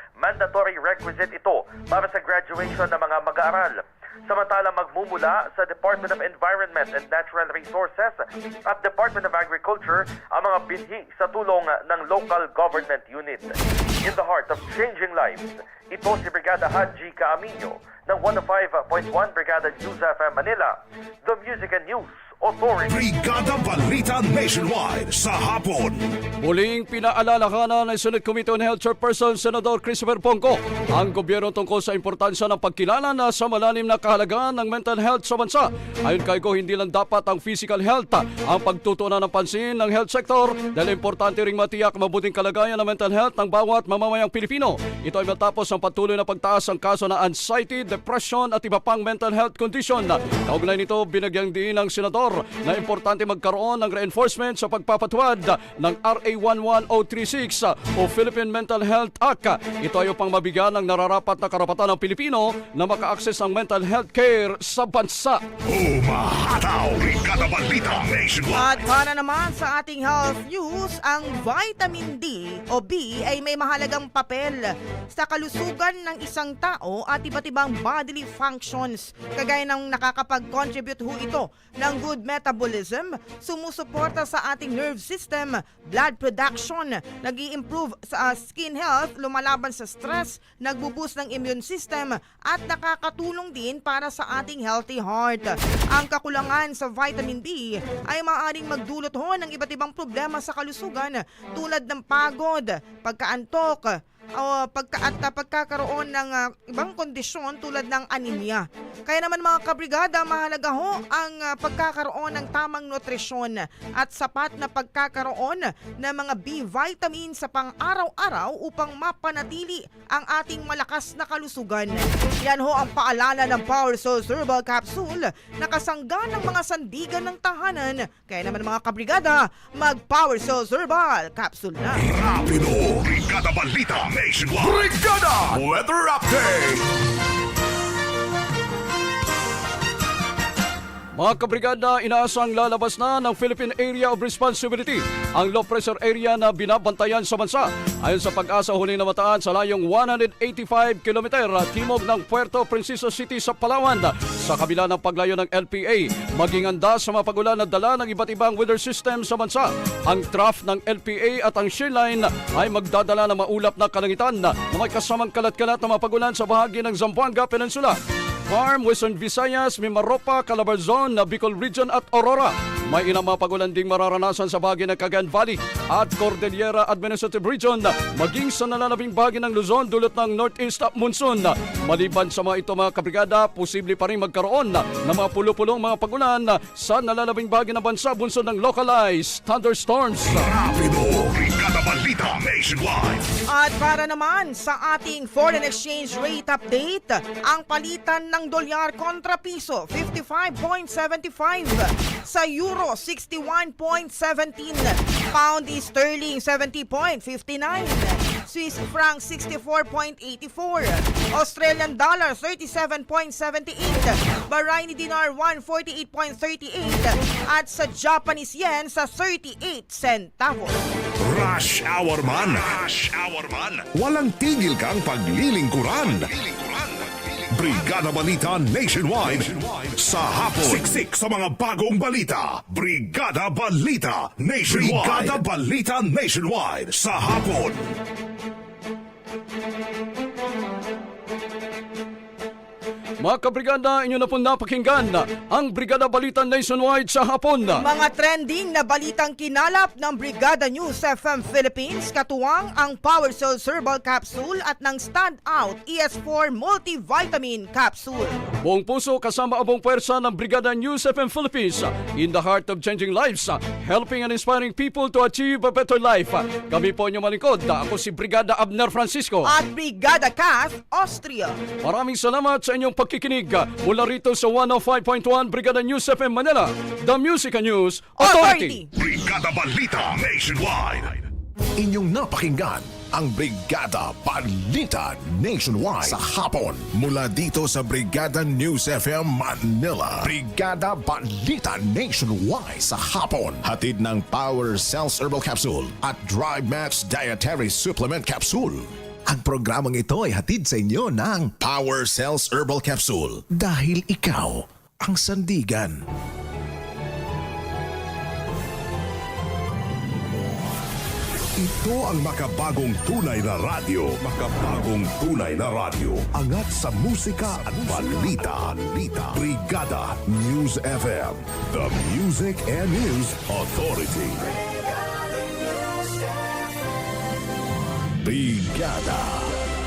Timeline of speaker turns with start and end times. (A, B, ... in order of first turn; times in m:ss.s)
0:00.2-0:23.1 A
0:22.9-0:26.1 B
0:26.4-1:05.4 C
1:05.7-1:08.8 B
1:08.5-2:12.0 D
2:12.0-2:16.7 B
2:21.1-3:10.5 C
3:10.4-3:13.2 B
3:13.5-3:40.8 D
3:41.2-3:46.3 B
3:47.5-3:58.0 B
4:03.2-4:07.8 C
4:07.8-4:18.5 D
4:18.6-4:29.5 C
4:29.4-4:31.6 D
4:31.8-4:38.8 C
4:38.2-4:38.9 D
4:38.9-4:41.3 B
4:41.8-5:06.0 E
5:11.6-5:24.4 B
5:17.6-5:18.4 E
5:28.2-5:29.6 E